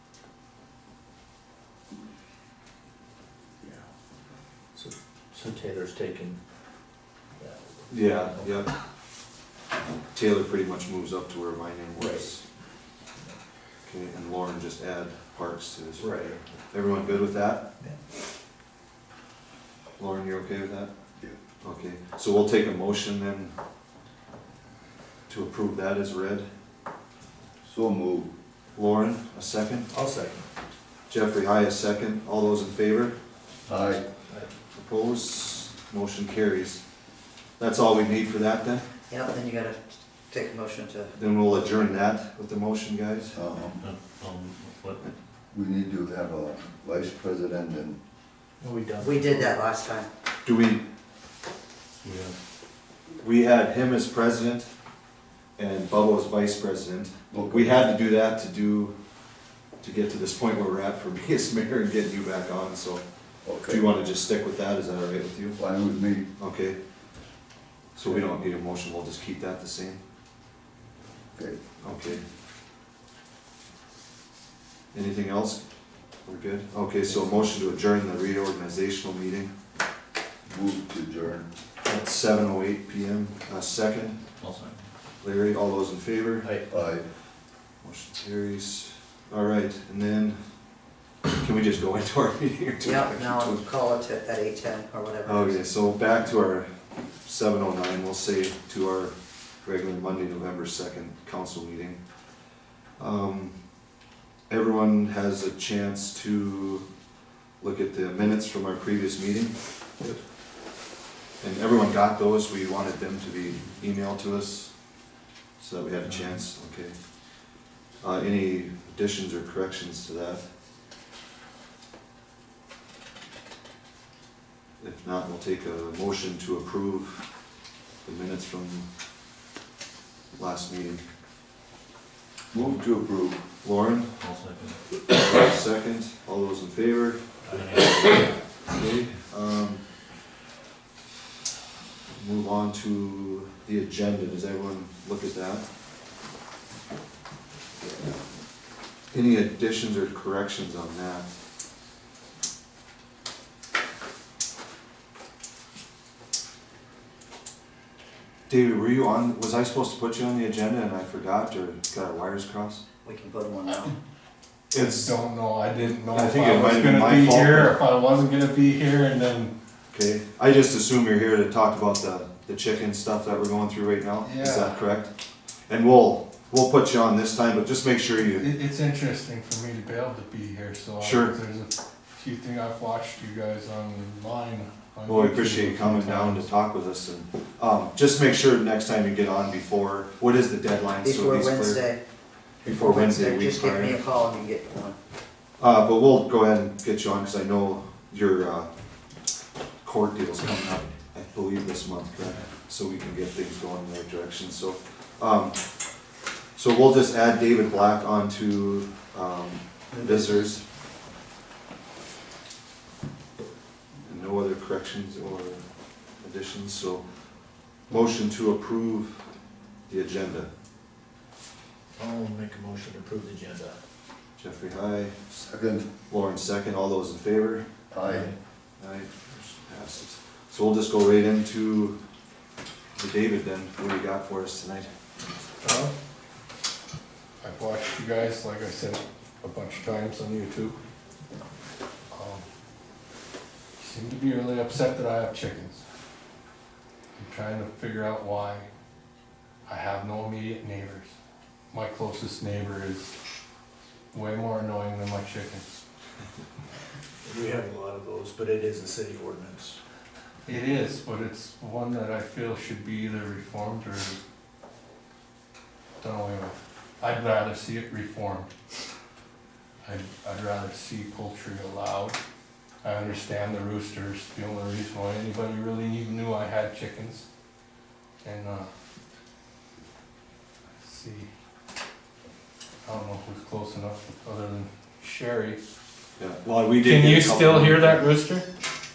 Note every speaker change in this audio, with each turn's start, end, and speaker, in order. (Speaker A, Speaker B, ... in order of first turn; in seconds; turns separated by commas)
Speaker A: 3.6-3.9, Speaker A: 4.7-6.4, Speaker A: 7.4-8.6, Speaker B: 7.9-8.7, Speaker B: 10.1-12.4, Speaker A: 12.0-12.3, Speaker B: 13.8-16.1, Speaker A: 16.0-16.4, Speaker B: 16.7-17.7, Speaker B: 20.0-20.9, Speaker B: 21.6-23.5, Speaker B: 25.3-26.5, Speaker C: 27.6-28.3, Speaker B: 28.8-29.9, Speaker A: 29.9-30.5, Speaker B: 31.1-33.2, Speaker C: 33.7-34.1, Speaker B: 34.8-36.8, Speaker B: 37.6-38.9, Speaker D: 39.1-41.2, Speaker B: 41.2-43.4, Speaker C: 43.3-43.8, Speaker E: 43.6-45.1, Speaker C: 45.5-48.0, Speaker A: 48.6-49.6, Speaker D: 49.0-50.1, Speaker B: 50.5-50.8, Speaker E: 52.0-52.4, Speaker B: 53.2-54.7, Speaker B: 55.6-59.0, Speaker C: 57.3-57.8, Speaker B: 59.8-63.0, Speaker C: 63.4-63.9, Speaker B: 63.7-65.6, Speaker C: 65.6-66.3, Speaker B: 66.4-66.8, Speaker B: 68.0-70.0, Speaker C: 71.3-71.6, Speaker B: 71.8-72.2, Speaker B: 74.9-75.6, Speaker B: 76.2-79.5, Speaker C: 80.5-81.5, Speaker B: 81.8-84.2, Speaker E: 84.4-84.9, Speaker B: 85.2-86.5, Speaker C: 86.7-87.1, Speaker B: 87.8-90.4, Speaker B: 91.3-93.7, Speaker D: 92.8-95.7, Speaker B: 95.3-96.7, Speaker B: 97.2-102.0, Speaker B: 103.0-103.6, Speaker B: 104.5-106.9, Speaker B: 107.6-109.6, Speaker B: 111.4-114.7, Speaker B: 115.6-117.0, Speaker B: 118.0-120.4, Speaker B: 124.8-127.2, Speaker B: 128.0-128.8, Speaker B: 130.3-131.0, Speaker C: 132.5-133.4, Speaker B: 133.6-134.1, Speaker E: 134.2-134.8, Speaker B: 135.1-137.2, Speaker E: 137.4-138.4, Speaker B: 138.7-139.8, Speaker B: 142.1-145.7, Speaker B: 149.1-151.3, Speaker B: 158.5-162.8, Speaker D: 163.0-163.9, Speaker B: 164.7-165.1, Speaker F: 164.8-169.5, Speaker B: 166.1-167.8, Speaker B: 169.9-175.1, Speaker F: 174.2-174.8, Speaker B: 175.7-178.5, Speaker F: 178.2-186.5, Speaker B: 181.0-181.3, Speaker B: 185.1-191.8, Speaker D: 191.0-192.0, Speaker B: 192.6-194.0, Speaker D: 192.6-195.0, Speaker B: 195.6-198.7, Speaker B: 199.8-205.6, Speaker B: 206.6-210.6, Speaker D: 210.0-210.3, Speaker B: 214.1-215.6, Speaker B: 216.2-217.1, Speaker B: 217.9-219.2, Speaker B: 219.9-220.5, Speaker A: 222.0-223.8, Speaker B: 224.4-225.4, Speaker C: 225.4-225.9, Speaker B: 226.1-227.7, Speaker C: 227.9-228.3, Speaker A: 228.1-228.3, Speaker B: 228.8-232.0, Speaker B: 233.0-234.9, Speaker F: 235.6-235.9, Speaker F: 237.4-240.8, Speaker F: 242.1-242.4, Speaker F: 243.8-245.8, Speaker F: 247.2-248.7, Speaker F: 249.7-251.2, Speaker F: 251.7-253.1, Speaker F: 254.1-255.7, Speaker A: 257.2-259.8, Speaker F: 260.5-264.2, Speaker F: 266.0-268.5, Speaker F: 269.8-272.2, Speaker F: 272.8-277.3, Speaker F: 278.2-278.7, Speaker F: 280.8-281.3, Speaker F: 282.9-285.6, Speaker B: 286.2-288.0, Speaker F: 286.8-288.5